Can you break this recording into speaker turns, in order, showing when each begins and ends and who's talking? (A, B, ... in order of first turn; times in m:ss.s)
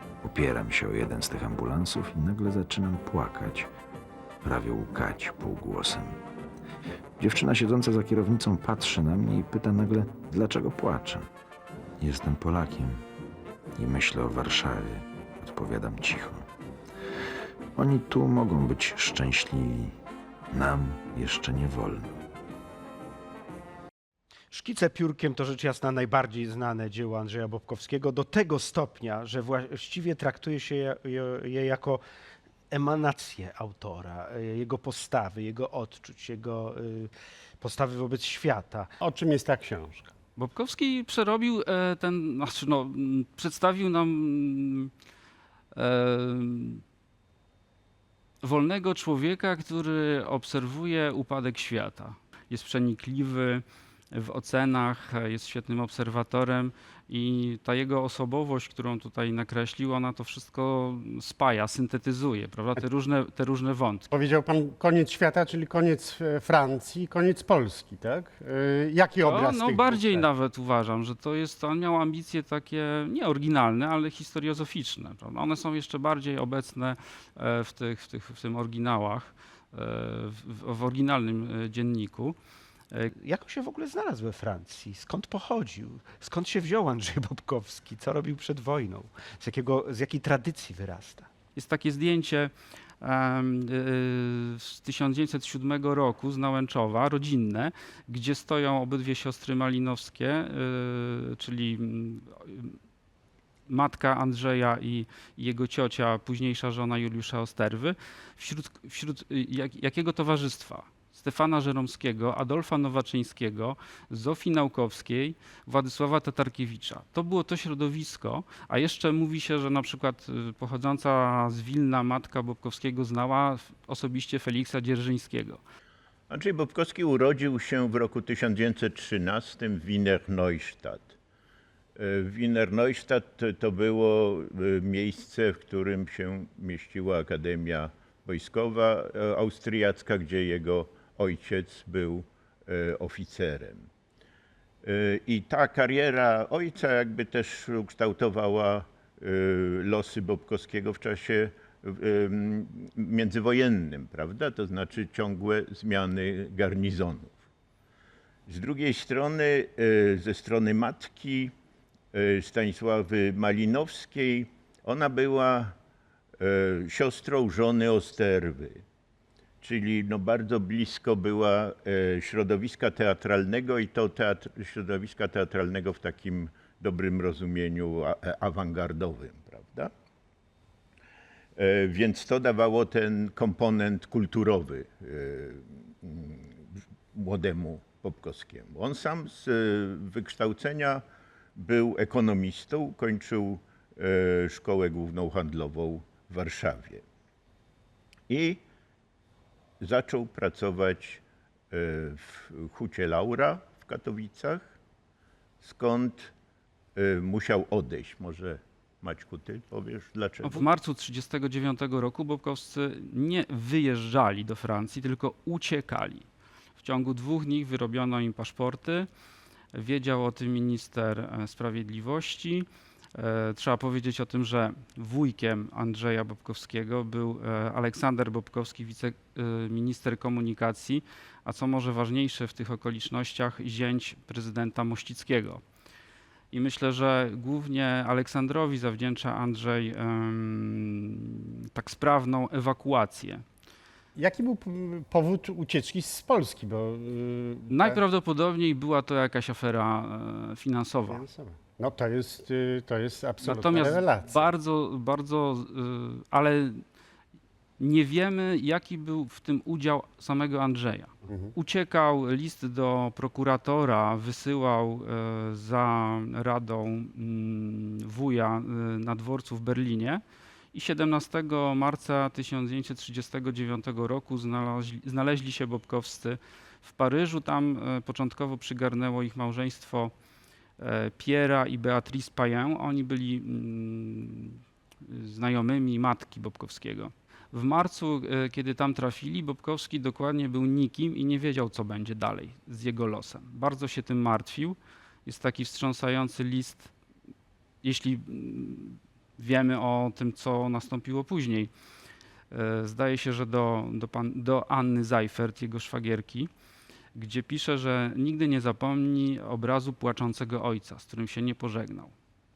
0:00.2-0:03.7 A
0:04.4-0:06.2 A
0:07.2-0:11.3 A
0:12.0-0:13.0 A
0:13.7-0:16.4 A
0:17.8-0:20.0 A
0:20.5-0:22.2 A
0:24.5-0:32.0 B
0:32.7-0:38.9 B
0:39.0-0:40.1 C
0:40.4-0:44.9 D
0:45.7-0:46.8 D
0:48.4-1:04.1 D
1:04.1-1:10.2 C
1:09.2-1:22.4 D
1:23.1-1:31.3 B
1:31.6-1:42.7 D
1:43.7-2:05.6 D
2:06.3-2:11.2 E
2:12.0-2:23.9 E
2:24.8-2:37.4 E
2:38.5-2:41.5 E
2:42.1-2:45.7 E
2:46.4-2:48.8 E
2:49.6-2:59.9 E
3:01.6-3:11.0 E
3:11.6-3:17.0 E
3:18.3-3:18.6 E
3:19.8-3:24.8 E
3:25.6-3:26.3 E
3:26.9-3:30.6 E
3:30.4-3:36.2 D
3:36.8-3:39.1 D
3:39.7-3:55.6 D
3:56.5-4:03.4 D
4:04.2-4:08.0 C
4:07.7-4:11.2 D
4:11.1-4:14.4 C
4:13.4-4:16.8 D
4:17.8-4:30.2 D
4:21.3-4:21.5 C
4:30.7-4:40.1 D
4:40.8-4:56.9 D
4:57.8-5:01.7 D
5:02.5-5:06.5 D
5:07.1-5:12.1 D